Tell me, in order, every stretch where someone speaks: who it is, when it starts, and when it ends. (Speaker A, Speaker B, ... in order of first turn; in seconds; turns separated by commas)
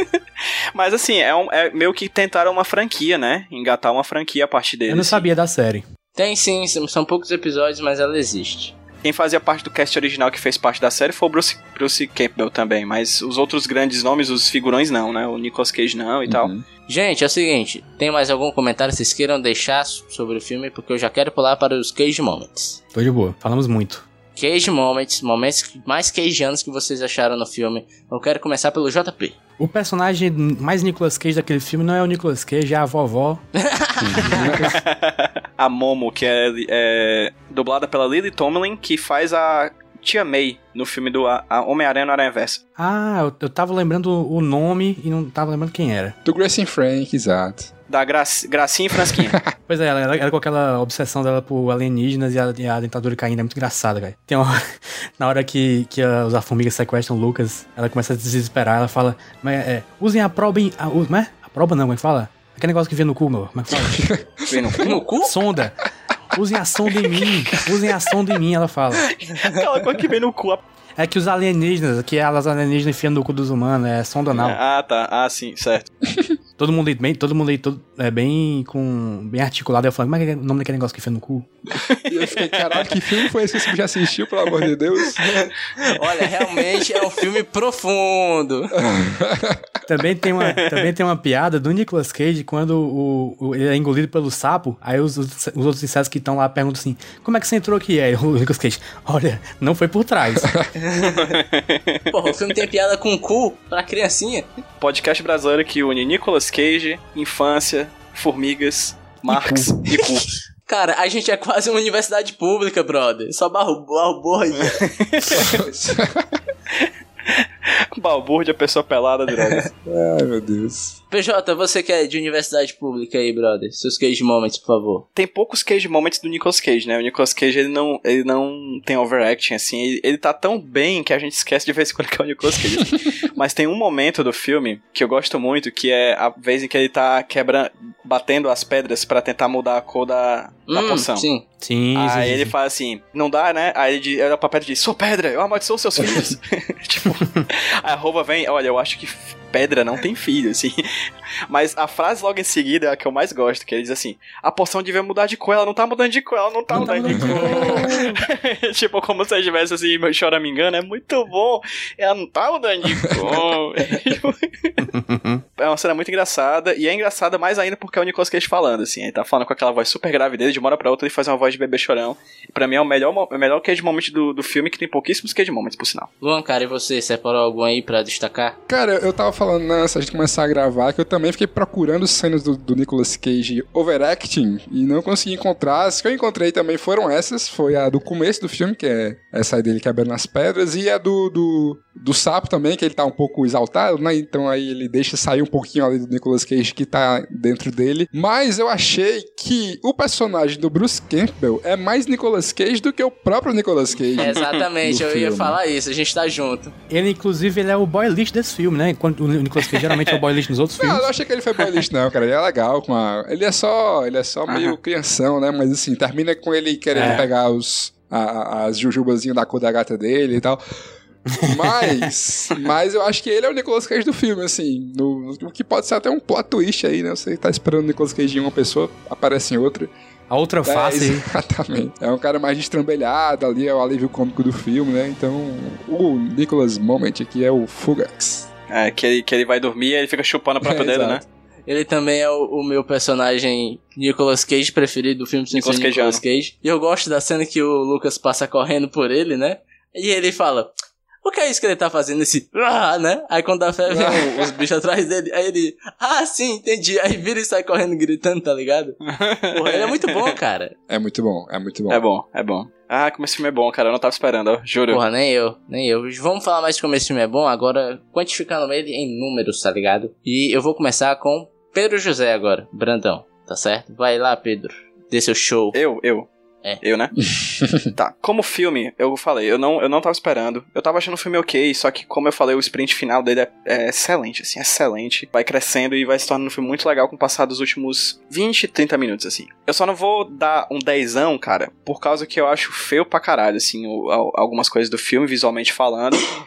Speaker A: 0.7-5.3, Speaker B: 4.9-5.8, Speaker C: 6.2-8.7, Speaker A: 9.0-16.5, Speaker D: 16.3-16.6, Speaker C: 16.9-22.8, Speaker B: 22.9-24.1, Speaker C: 24.4-29.3, Speaker B: 29.6-33.4, Speaker C: 33.5-34.4, Speaker D: 34.0-34.8, Speaker B: 34.2-34.8, Speaker A: 34.5-42.6, Speaker B: 42.8-46.1, Speaker D: 46.2-47.7, Speaker A: 47.9-49.4, Speaker D: 48.9-49.5, Speaker B: 49.7-64.0, Speaker D: 63.7-64.8, Speaker A: 64.5-65.0, Speaker C: 64.8-65.3, Speaker B: 65.2-69.1, Speaker A: 69.1-70.6, Speaker B: 71.0-74.6, Speaker A: 74.3-75.9, Speaker D: 76.1-76.3, Speaker B: 76.6-81.8, Speaker D: 82.0-85.2, Speaker A: 82.3-82.9, Speaker C: 85.2-88.7, Speaker D: 88.8-89.6, Speaker B: 89.9-100.5, Speaker A: 90.4-90.9, Speaker D: 100.3-100.6, Speaker C: 100.8-101.4, Speaker A: 101.1-102.0, Speaker C: 102.1-104.5, Speaker A: 104.8-110.3, Speaker C: 110.7-114.8, Speaker A: 114.7-115.6, Speaker D: 115.2-116.3, Speaker A: 116.7-117.4, Speaker A: 117.9-119.7, Speaker D: 119.8-120.9, Speaker C: 121.1-125.0, Speaker A: 125.2-141.2, Speaker C: 140.7-141.4, Speaker B: 141.6-142.5, Speaker A: 141.9-150.8, Speaker D: 146.0-146.3, Speaker A: 151.5-164.8, Speaker B: 156.7-158.2, Speaker D: 157.1-157.8, Speaker D: 163.0-163.5, Speaker B: 164.8-165.4, Speaker A: 165.6-176.1, Speaker C: 176.2-178.6, Speaker D: 178.7-205.6, Speaker C: 204.2-206.7, Speaker A: 204.2-204.6, Speaker B: 206.9-211.0, Speaker A: 209.6-210.2, Speaker D: 210.8-220.6, Speaker A: 214.5-214.7, Speaker B: 216.9-217.2, Speaker A: 217.0-217.2, Speaker D: 221.4-229.9, Speaker B: 230.3-231.2, Speaker D: 230.6-238.5, Speaker A: 238.7-241.2, Speaker D: 240.6-241.2, Speaker C: 241.7-250.7, Speaker A: 245.5-246.2, Speaker C: 251.2-259.0, Speaker D: 253.9-254.5, Speaker A: 259.1-260.4, Speaker C: 259.5-260.7, Speaker D: 260.9-262.0, Speaker A: 261.9-265.0, Speaker C: 264.9-275.8, Speaker A: 275.7-276.3, Speaker A: 276.8-277.1, Speaker D: 277.4-277.9, Speaker A: 277.9-296.3